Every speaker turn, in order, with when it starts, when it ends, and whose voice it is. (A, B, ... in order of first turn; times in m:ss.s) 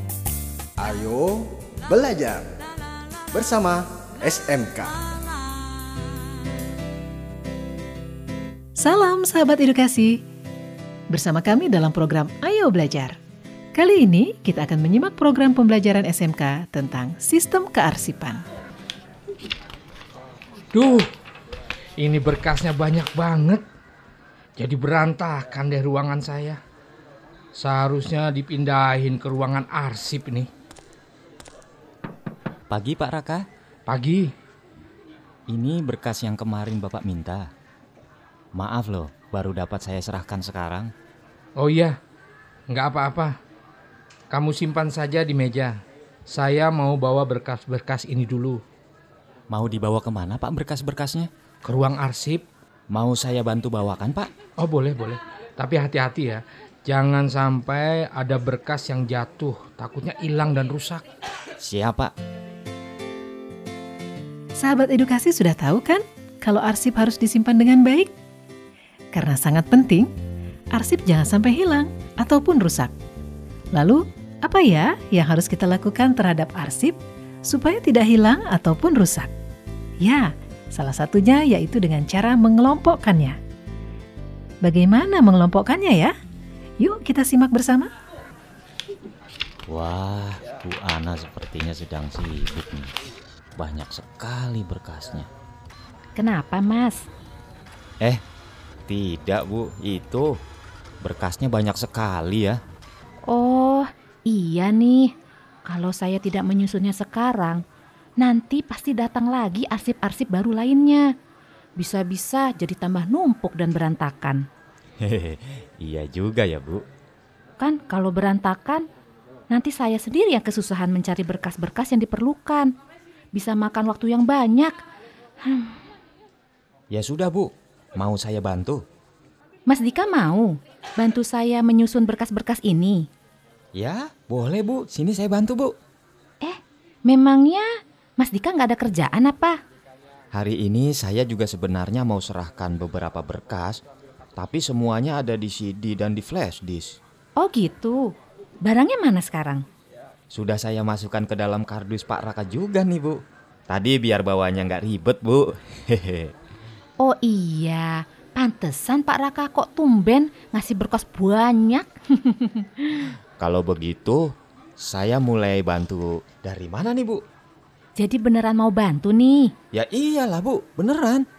0:00.8-0:02.6 A
0:03.3-0:05.1 A
0:05.1-0:06.4 B
0:08.8-0:10.2 C
0:11.1-0:13.2 C
0:13.8-0:18.4 C
0:20.7-0:21.1 B
0:22.0-0:23.6 B
0:24.6-0:26.6 B
0:27.6-0:30.5 B
0:32.7-0:33.5 D
0:33.9-0:34.3 B
0:35.5-0:37.5 D
0:38.6-0:40.9 D
0:41.6-0:42.0 B
0:42.7-0:43.4 B
0:44.3-0:48.6 B
0:49.5-0:51.3 D
0:51.6-0:52.4 B
0:52.9-0:54.3 D
0:54.6-1:01.0 B
1:01.6-1:02.1 D
1:04.6-1:08.1 C
1:09.1-1:10.1 C
1:10.7-1:12.9 C
1:13.7-1:19.3 C
1:20.0-1:23.4 C
1:24.6-1:26.1 C
1:26.8-1:27.9 C
1:29.7-1:32.9 D
1:33.6-1:35.3 D
1:36.2-1:37.1 E
1:38.9-1:40.4 D
1:41.0-1:42.6 D
1:43.3-1:45.1 E
1:45.7-1:47.6 E
1:48.2-1:51.1 E
1:51.8-1:54.4 E
1:55.0-1:56.8 D
1:57.6-1:58.8 E
1:59.5-2:02.7 E
2:03.4-2:04.8 E
2:05.4-2:05.8 E
2:06.9-2:08.8 D
2:09.7-2:13.1 E
2:13.8-2:15.8 D
2:16.4-2:17.7 E
2:18.2-2:19.6 E
2:20.3-2:23.8 D
2:24.4-2:27.0 D
2:27.4-2:29.6 E
2:30.3-2:36.3 D
2:37.0-2:43.1 E
2:43.4-2:47.2 D
2:48.0-2:49.5 E
2:49.7-2:51.2 D